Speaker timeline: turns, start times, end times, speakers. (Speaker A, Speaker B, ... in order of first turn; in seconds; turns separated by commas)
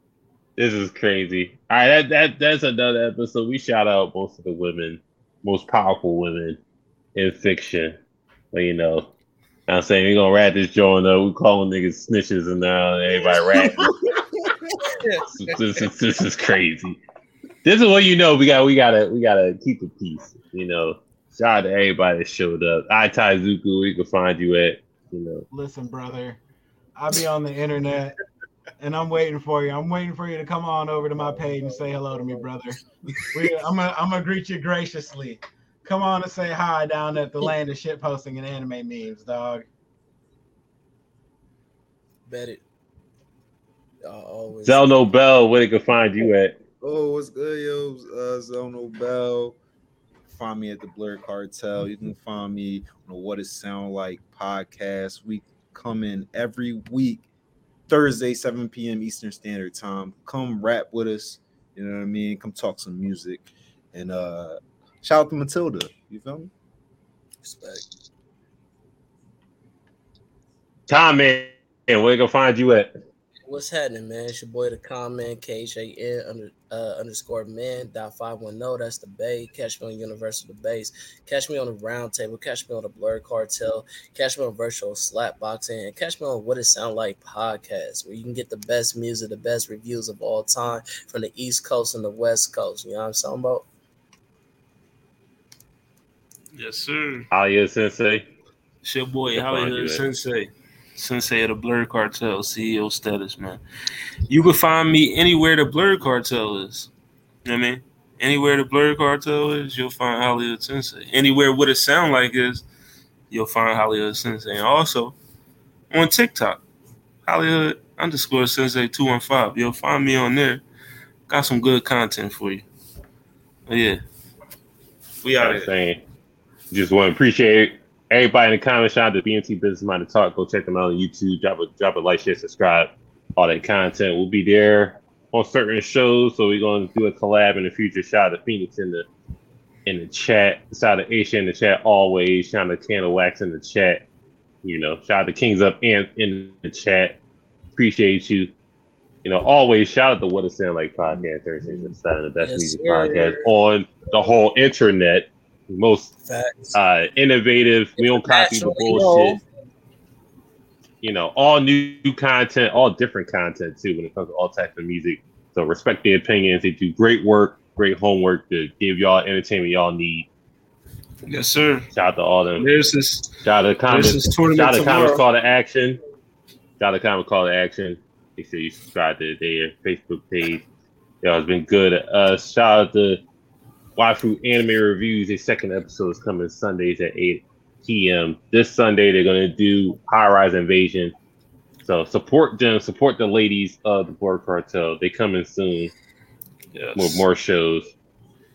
Speaker A: 0.6-6.6, Speaker A: 7.2-8.0, Speaker A: 8.5-9.1, Speaker A: 9.7-13.9, Speaker B: 13.5-14.8, Speaker C: 14.9-15.6, Speaker A: 15.4-17.0, Speaker A: 17.6-25.4, Speaker D: 25.5-26.4, Speaker D: 27.0-28.2, Speaker D: 28.8-32.8, Speaker C: 31.1-32.5, Speaker D: 33.3-39.6, Speaker C: 42.3-42.6, Speaker C: 44.0-44.9, Speaker A: 44.6-46.5, Speaker B: 46.8-49.6, Speaker B: 50.3-57.3, Speaker B: 57.9-66.5, Speaker C: 67.4-67.9, Speaker A: 70.9-72.9, Speaker C: 73.5-93.7, Speaker E: 96.5-97.3, Speaker A: 97.3-98.3, Speaker E: 98.8-103.6, Speaker A: 99.3-100.1, Speaker E: 104.3-106.9, Speaker E: 107.5-112.7, Speaker E: 113.3-115.2, Speaker E: 115.9-116.6, Speaker E: 117.3-120.6, Speaker E: 121.3-122.7, Speaker E: 123.7-124.0, Speaker E: 125.2-125.7, Speaker A: 125.4-126.0, Speaker A: 126.7-139.1, Speaker A: 139.9-144.1, Speaker A: 144.6-147.2, Speaker A: 147.8-148.5, Speaker A: 149.2-156.1, Speaker C: 152.4-153.5, Speaker C: 156.2-156.8, Speaker A: 156.7-159.4, Speaker C: 158.0-159.4, Speaker A: 161.0-170.3, Speaker E: 171.3-171.9, Speaker A: 171.9-176.0, Speaker E: 172.6-173.3, Speaker E: 173.9-175.2, Speaker A: 176.8-180.6, Speaker A: 181.2-183.2, Speaker A: 184.0-191.2, Speaker A: 191.8-195.9, Speaker E: 196.7-197.3, Speaker A: 197.0-197.9